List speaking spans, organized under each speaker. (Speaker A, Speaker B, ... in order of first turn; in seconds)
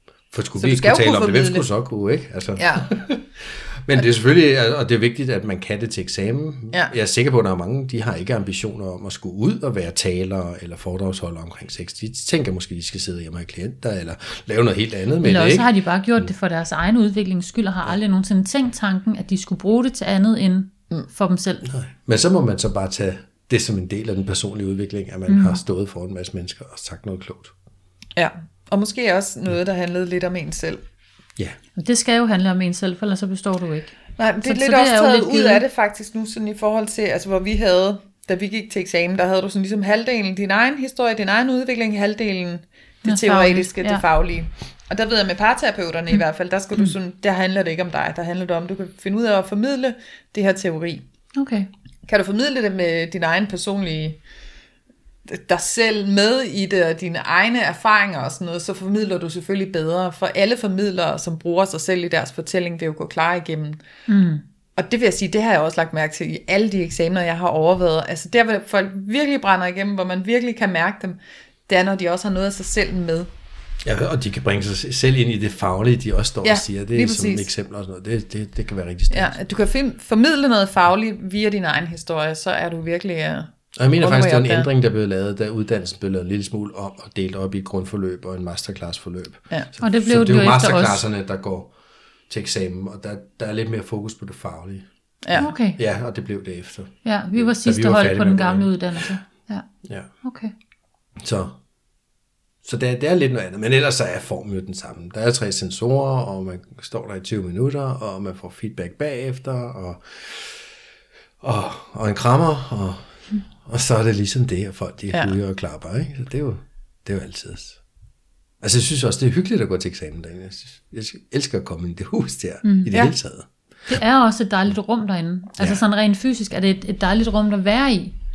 Speaker A: 0.3-16.3, 21.6-27.5, 73.8-79.4, 83.8-91.7, 92.3-98.7, 99.8-100.1, 101.2-101.6, 102.6-110.7, 111.4-117.8, 118.6-123.5
Speaker B: 0.6-1.7, 2.6-2.9, 28.2-30.8, 34.2-51.0, 52.1-54.2, 55.3-63.8, 64.8-73.3, 76.4-77.5, 79.1-84.7
Speaker C: 15.2-21.6, 25.3-25.6, 31.8-35.6, 43.0-44.0, 51.4-51.7, 64.1-64.4, 89.8-91.0, 95.3-95.8, 97.0-99.7, 100.2-100.5, 122.7-122.9, 123.9-128.1